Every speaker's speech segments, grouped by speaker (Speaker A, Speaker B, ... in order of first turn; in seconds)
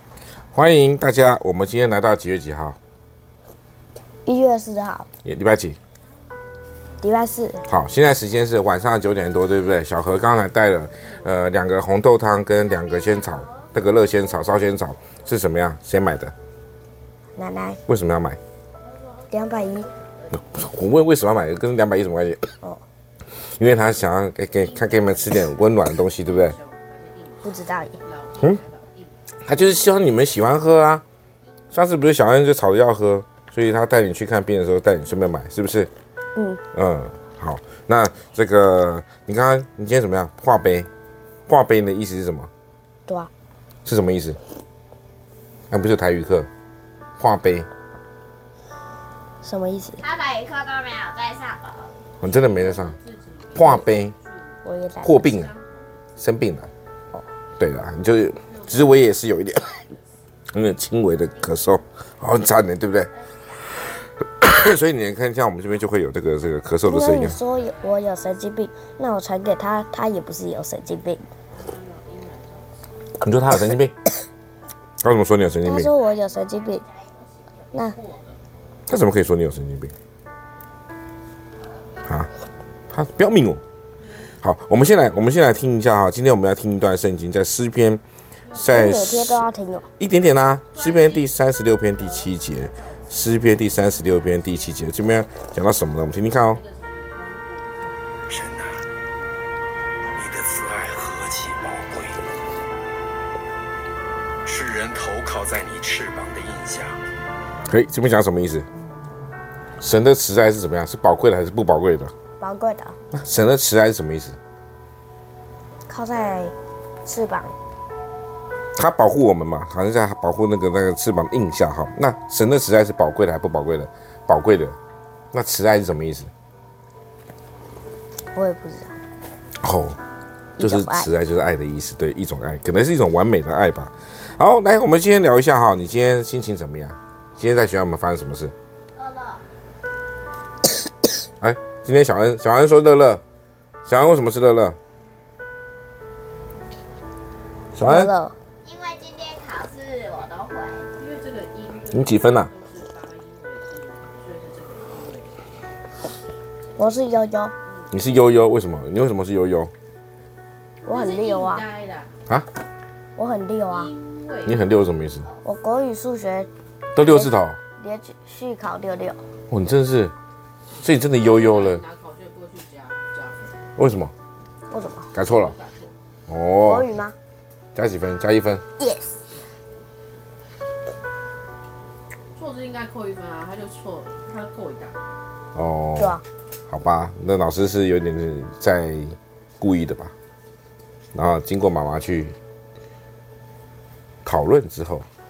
Speaker A: 0.5-2.8, 5.2-5.8, 7.7-16.3, 17.9-18.4, 20.4-22.5, 23.6-26.6, 29.5-31.0, 31.7-35.9, 36.7-40.9, 41.5-42.5, 43.9-44.4, 45.7-46.5, 47.2-47.7, 52.2-53.0, 53.5-54.1, 55.0-55.5, 56.2-56.7, 57.6-59.8, 60.5-63.1, 64.4-67.4, 73.2-73.9, 75.0-75.9, 78.9-79.9, 82.1-82.3, 82.9-83.6, 84.4-88.0, 88.6-89.4, 90.0-96.6, 107.7-108.7, 109.8-112.1, 113.1-114.4, 118.8-124.8, 125.3-126.3, 129.6-130.0, 130.6-138.5, 141.4-143.2, 143.9-144.8, 147.7-148.1, 151.9-152.5, 157.9-159.7, 164.4-165.3, 166.9-167.6, 169.5-170.1, 170.8-171.8, 173.8-174.1, 175.1-175.6, 176.3-176.9, 177.8-178.6, 185.6-190.1, 191.1-192.4, 194.2-195.1
Speaker B: 4.2-5.1, 7.0-7.7, 17.4-17.8, 19.3-19.9, 27.4-28.0, 36.4-36.6, 49.4-50.0, 54.6-55.3, 66.8-71.2, 75.6-76.8, 77.7-78.0, 88.6-89.9, 112.4-113.0, 115.9-116.5, 117.0-117.5, 128.3-129.0, 130.6-131.1, 147.8-148.4, 156.8-157.5, 160.9-161.7, 163.2-163.9, 165.4-169.2, 174.7-175.1, 176.6-177.2, 178.8-179.2, 186.0-186.2
Speaker C: 24.6-25.6, 26.1-29.1, 52.3-56.0, 58.5-59.3, 71.5-72.8, 77.7-78.4, 90.7-91.3, 92.0-93.3, 96.4-97.9, 151.0-155.4, 160.8-162.1, 163.7-164.6, 171.2-173.6, 175.2-176.0, 182.3-185.0
Speaker D: 50.0-51.9, 139.0-139.4, 148.6-150.9
Speaker E: 98.3-98.8, 100.2-102.2, 104.5-107.0